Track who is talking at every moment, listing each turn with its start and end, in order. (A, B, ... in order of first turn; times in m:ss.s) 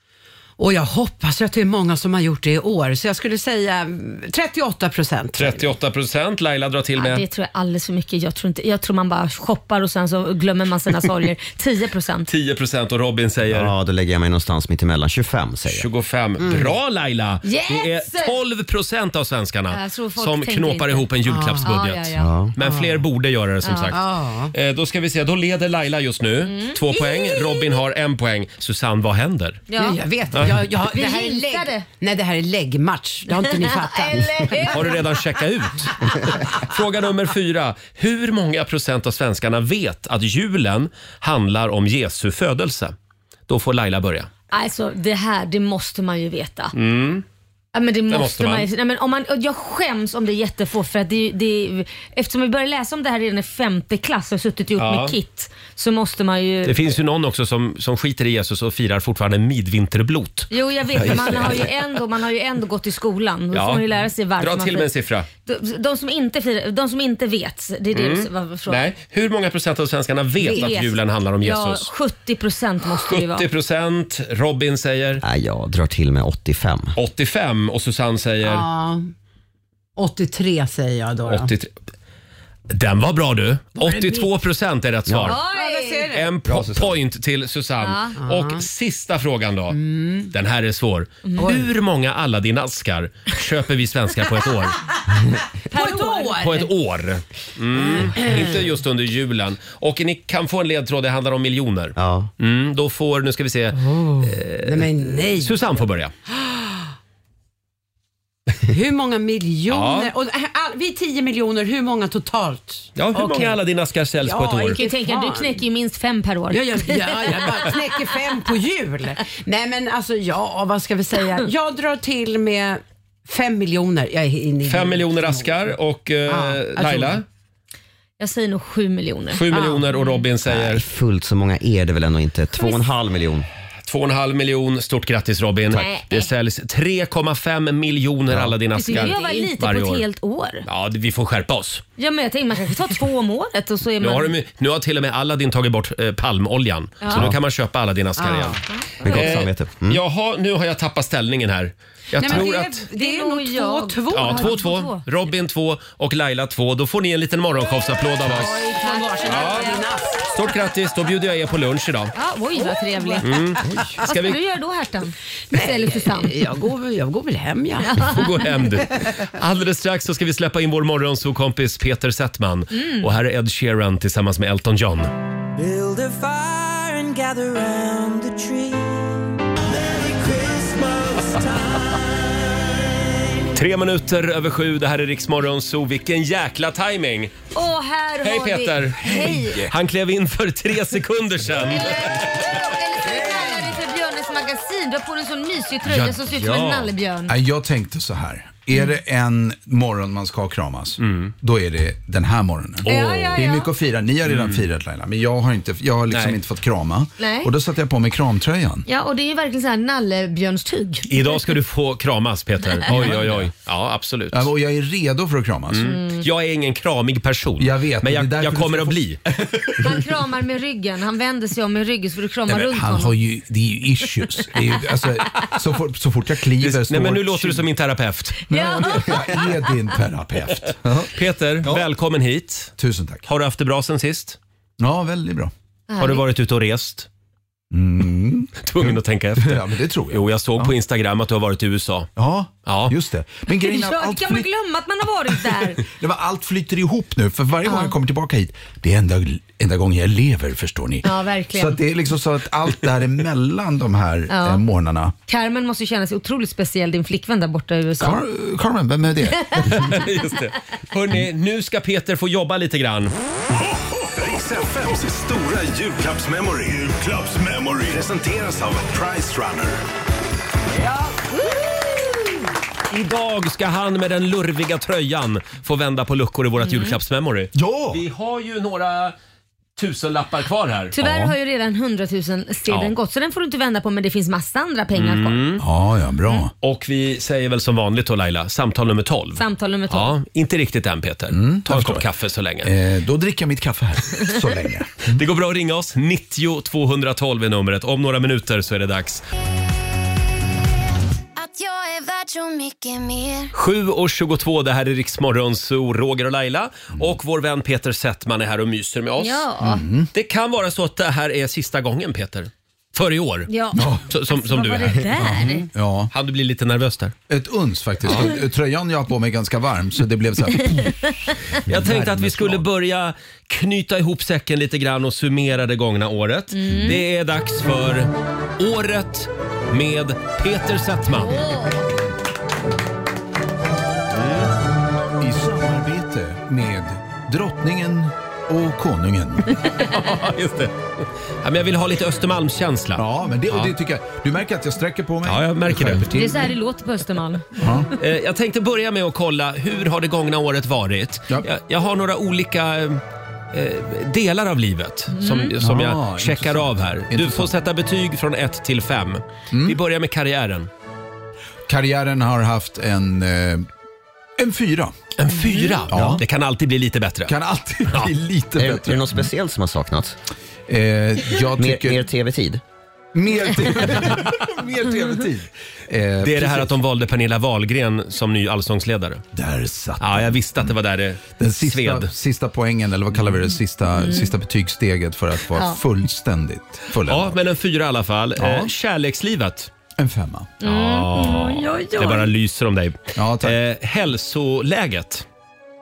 0:00.6-0:05.7 A
0:05.3-0:07.2 B
0:07.0-0:12.3 C
0:12.3-0:13.7 B
0:13.5-0:15.9 D
0:15.7-0:29.6 B
0:16.4-0:16.7 A
0:17.4-0:18.4 C
0:19.7-0:21.0 C
0:21.2-0:21.7 A
0:21.6-0:22.3 C
0:22.2-0:22.5 D
0:22.6-0:23.0 A
0:23.6-0:23.9 C
0:23.9-0:24.5 A
0:26.4-0:27.7 C
0:29.7-0:30.0 C
0:29.8-0:35.0 A
0:30.9-0:31.8 C
0:33.3-0:35.1 C
0:34.7-0:36.0 B
0:36.5-0:42.9 B
0:43.5-0:44.3 B
0:44.5-0:46.7 C
0:46.7-0:47.2 B
0:47.7-0:56.8 C
0:48.1-0:48.7 B
0:54.8-0:55.1 B
0:56.6-1:01.7 B
1:00.5-1:04.9 C
1:03.5-1:03.9 B
1:04.4-1:05.3 B
1:05.4-1:08.8 C
1:07.9-1:11.9 B
1:10.4-1:10.8 A
1:10.5-1:13.4 C
1:13.0-1:15.2 B
1:15.2-1:17.0 D
1:17.0-1:18.7 B
1:18.4-1:19.1 A
1:20.0-1:21.5 A
1:21.2-1:21.7 B
1:22.7-1:25.4 B
1:23.8-1:24.3 A
1:25.1-1:25.3 D
1:25.2-1:26.1 C
1:25.4-1:26.3 A
1:26.1-1:29.8 B
1:26.5-1:26.9 E
1:27.8-1:28.2 C
1:28.2-1:28.6 A
1:29.7-1:30.3 A
1:30.3-1:34.8 B
1:31.4-1:31.7 A
1:35.7-1:36.4 C
1:35.7-1:36.7 A
1:36.4-1:46.1 B
1:37.8-1:38.6 A
1:42.0-1:42.3 D
1:43.7-1:45.6 A
1:46.3-1:46.8 A
1:48.7-1:53.6 A
1:49.7-1:50.1 B
1:53.0-1:54.8 B
1:54.2-1:55.6 A
1:54.8-1:57.8 C
1:56.5-2:05.7 A
2:04.6-2:07.2 B
2:06.3-2:07.2 A
2:08.2-2:10.2 C
2:09.3-2:10.8 B
2:09.5-2:09.9 A
2:10.4-2:13.5 D
2:12.5-2:12.8 C
2:13.9-2:20.0 B
2:15.7-2:16.3 C
2:18.3-2:18.5 D
2:18.7-2:20.6 C
2:20.6-2:21.8 B
2:22.0-2:24.3 C
2:24.0-2:32.9 B
2:27.0-2:27.3 C
2:28.2-2:28.6 A
2:28.8-2:29.2 C
2:29.0-2:30.0 D
2:32.2-2:34.7 A
2:32.3-2:35.0 C
2:34.1-2:38.7 B
2:38.2-2:40.3 A
2:38.7-2:39.8 C
2:39.2-2:42.1 B
2:42.1-2:43.4 C
2:42.5-2:44.0 A
2:43.2-2:44.4 B
2:44.0-2:46.4 C
2:45.5-2:48.1 A
2:47.8-2:48.6 C
2:48.0-2:55.1 B
2:52.7-2:53.1 C
2:55.6-2:56.8 F
2:55.7-2:56.3 A
2:56.8-2:58.4 A
2:57.9-2:58.2 F
2:59.7-3:01.9 F
3:03.5-3:07.3 B
3:07.5-3:09.6 C
3:08.2-3:09.1 B
3:09.0-3:09.7 E
3:09.6-3:12.4 B
3:11.7-3:17.3 C
3:13.0-3:13.8 E
3:15.8-3:16.9 B
3:17.3-3:28.8 E
3:21.0-3:21.3 B
3:22.8-3:23.2 B
3:22.8-3:23.7 C
3:24.2-3:24.6 B
3:26.1-3:26.4 B
3:27.2-3:27.5 C
3:28.9-3:31.4 C
3:31.1-3:34.5 B
3:32.8-3:33.5 E
3:34.3-3:35.9 E
3:35.7-3:39.2 B
3:35.8-3:36.2 C
3:37.6-3:40.0 E
3:39.8-3:43.1 C
3:42.5-3:47.6 E
3:46.6-3:49.0 B
3:48.5-3:51.8 E
3:48.5-3:49.4 C
3:51.1-3:52.7 B
3:52.8-3:53.2 E
3:53.3-3:54.4 B
3:54.8-3:55.5 E
3:55.9-3:56.2 C
3:56.0-3:57.1 B
3:57.7-4:00.7 E
3:58.6-4:02.1 B
4:02.2-4:04.5 E
4:02.6-4:02.9 B
4:03.5-4:05.8 C
4:05.7-4:15.1 E
4:07.6-4:07.9 C
4:11.0-4:11.8 C
4:14.3-4:14.6 C
4:15.3-4:18.2 C
4:18.0-4:19.6 E
4:19.3-4:19.9 C
4:19.6-4:23.1 B
4:23.6-4:29.8 F
4:30.7-4:31.1 B
4:31.7-4:32.3 C
4:32.9-4:39.1 B
4:36.6-4:37.0 C
4:37.5-4:38.0 E
4:39.8-4:40.9 B
4:40.9-4:45.4 C
4:41.0-4:41.3 E
4:42.7-4:42.9 B
4:44.9-4:45.6 B
4:45.6-4:46.5 E
4:46.6-4:52.7 B
4:49.4-4:50.1 C
4:51.3-4:52.0 E
4:52.6-4:55.2 E
4:55.1-4:59.2 B
5:01.4-5:03.5 G
5:03.5-5:09.5 B
5:09.2-5:09.8 C
5:09.6-5:10.1 E
5:10.1-5:13.5 B
5:13.5-5:15.7 C
5:13.7-5:14.1 E
5:14.1-5:15.1 B
5:15.1-5:16.1 E
5:16.1-5:17.1 B
5:17.3-5:22.6 E
5:21.6-5:31.4 B
5:26.5-5:27.0 C
5:31.2-5:31.9 C
5:34.1-5:34.5 B
5:35.2-5:39.6 E
5:39.7-5:43.7 B
5:43.0-5:46.5 E
5:45.2-5:46.0 B
5:46.1-5:47.5 C
5:47.5-5:47.9 E
5:48.0-5:53.0 B
5:53.5-6:00.7 B
5:55.1-5:55.5 C
5:55.6-5:57.5 E
5:59.5-5:59.8 E
6:01.7-6:03.6 E
6:04.4-6:04.9 E
6:05.2-6:07.3 B
6:05.4-6:05.8 C
6:05.9-6:06.2 E
6:05.9-6:06.2 D
6:07.2-6:09.2 E
6:08.6-6:10.2 D
6:10.7-6:12.0 E
6:11.6-6:12.6 D
6:13.1-6:16.7 E
6:16.2-6:19.2 B
6:19.3-6:20.4 E
6:20.0-6:22.1 B
6:21.4-6:27.4 E
6:24.0-6:24.2 C
6:27.0-6:29.7 B
6:28.4-6:28.7 E
6:30.0-6:30.6 E
6:30.6-6:32.3 C
6:30.6-6:35.2 B
6:33.2-6:33.6 E